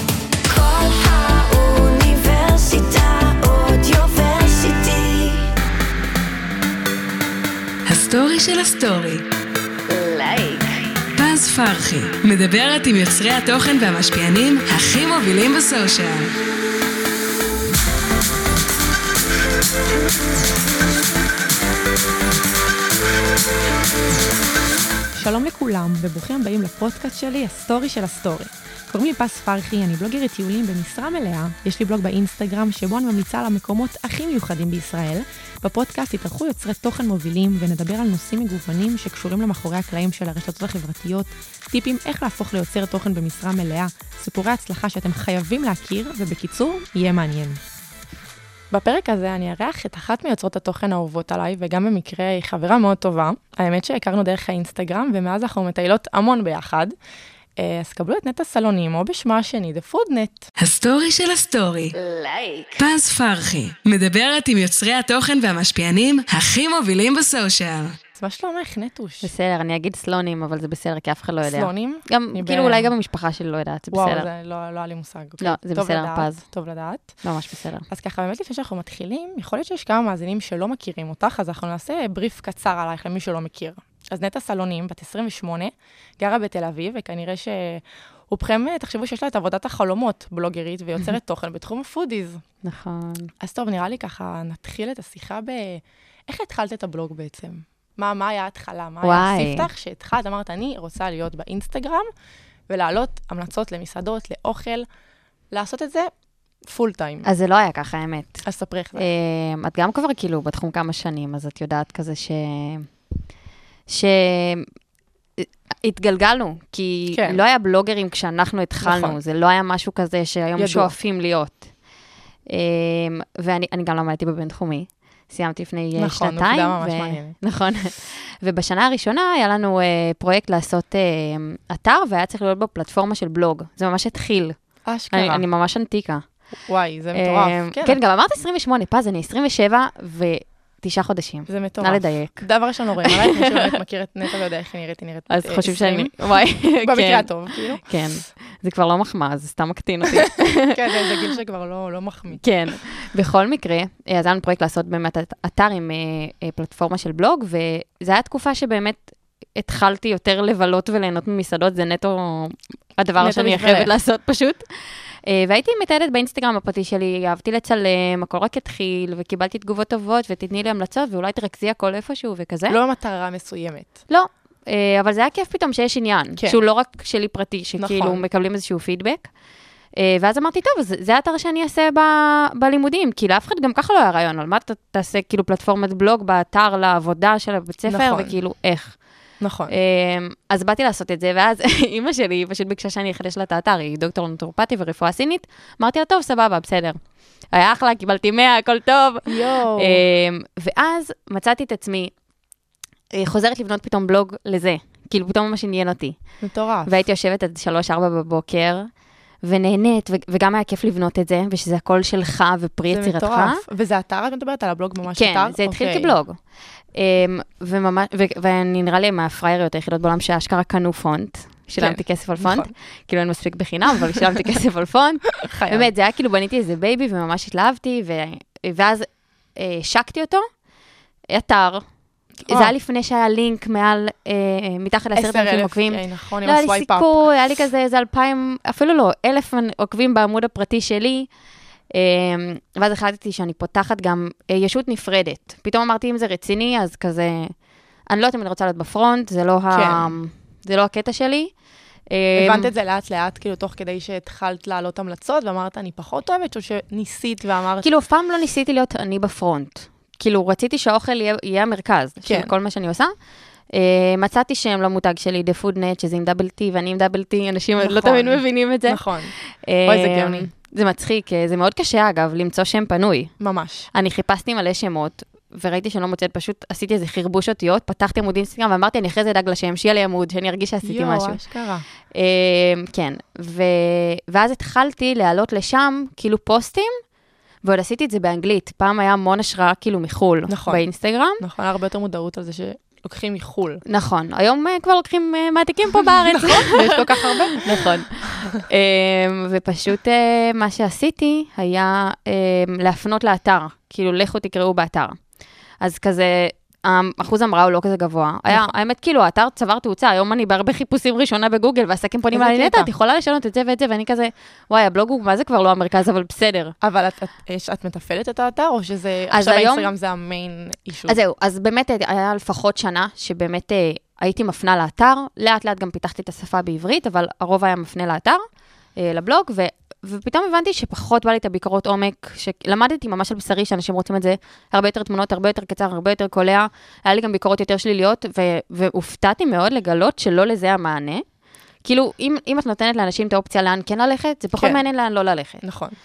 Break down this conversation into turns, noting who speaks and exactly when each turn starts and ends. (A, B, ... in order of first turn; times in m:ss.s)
0:00.5-0:05.5 A
0:07.9-0:09.2 B
0:09.9-0:10.8 A
0:11.2-0:16.3 B
0:25.2-0:47.6 C
0:48.7-0:56.9 C
0:57.6-1:00.5 C
1:00.6-1:01.9 B
1:02.0-1:02.8 A
1:02.8-1:08.0 B
1:08.2-1:09.3 C
1:09.2-1:14.3 D
1:11.4-1:12.9 C
1:13.9-1:17.2 C
1:15.4-1:16.4 D
1:17.2-1:17.9 D
1:17.9-1:32.4 C
1:32.6-1:33.3 D
1:33.4-1:42.1 C
1:39.0-1:39.7 D
1:42.7-1:44.9 C
1:45.5-1:46.1 C
1:46.6-1:47.3 C
1:47.2-1:48.4 D
1:48.4-1:49.1 C
1:49.0-1:52.9 D
1:53.9-1:54.7 D
1:55.4-2:01.7 D
1:57.1-1:57.4 C
1:58.8-1:59.2 C
2:00.6-2:00.9 C
2:02.5-2:14.6 D
2:06.0-2:07.4 C
2:14.8-2:15.4 C
2:15.1-2:16.3 D
2:16.7-2:18.0 C
2:17.1-2:22.5 D
2:21.5-2:27.9 C
2:23.0-2:23.6 D
2:25.3-2:31.0 D
2:30.6-2:32.4 C
2:32.4-2:52.8 D
2:43.2-2:43.9 C
2:52.7-2:54.0 C
2:54.1-2:59.3 D
2:57.8-2:58.2 C
3:00.0-3:09.0 D
3:07.9-3:08.4 C
3:09.4-3:09.7 C
3:09.7-3:22.1 D
3:19.3-3:20.0 C
3:23.1-3:26.2 D
3:26.4-3:27.0 C
3:26.9-3:28.9 D
3:29.4-3:33.6 D
3:32.9-3:36.2 C
3:35.1-3:36.4 D
3:36.9-3:50.5 D
3:41.8-3:42.7 C
3:45.4-3:45.9 C
3:51.3-3:51.8 D
3:52.4-3:52.7 C
3:52.5-4:01.3 D
3:55.2-3:57.3 C
4:01.9-4:07.5 D
4:08.1-4:11.5 D
4:09.7-4:10.1 C
4:12.1-4:12.7 D
4:12.4-4:17.9 C
4:17.8-4:23.1 D
4:22.2-4:22.5 C
4:23.7-4:33.3 D
4:27.8-4:29.4 C
4:29.9-4:30.5 C
4:33.4-4:33.9 C
4:33.9-4:41.4 D
4:40.8-4:41.8 C
4:42.1-4:46.9 D
4:47.6-4:51.4 D
4:50.5-4:50.8 C
4:51.4-4:53.8 C
4:53.9-5:05.2 D
4:56.0-4:58.6 C
5:05.8-5:16.8 D
5:12.3-5:12.9 C
5:16.8-5:21.2 C
5:19.3-5:19.9 D
5:21.1-5:28.4 D
5:29.0-5:41.2 D
5:41.8-5:45.6 D
5:45.6-5:46.0 C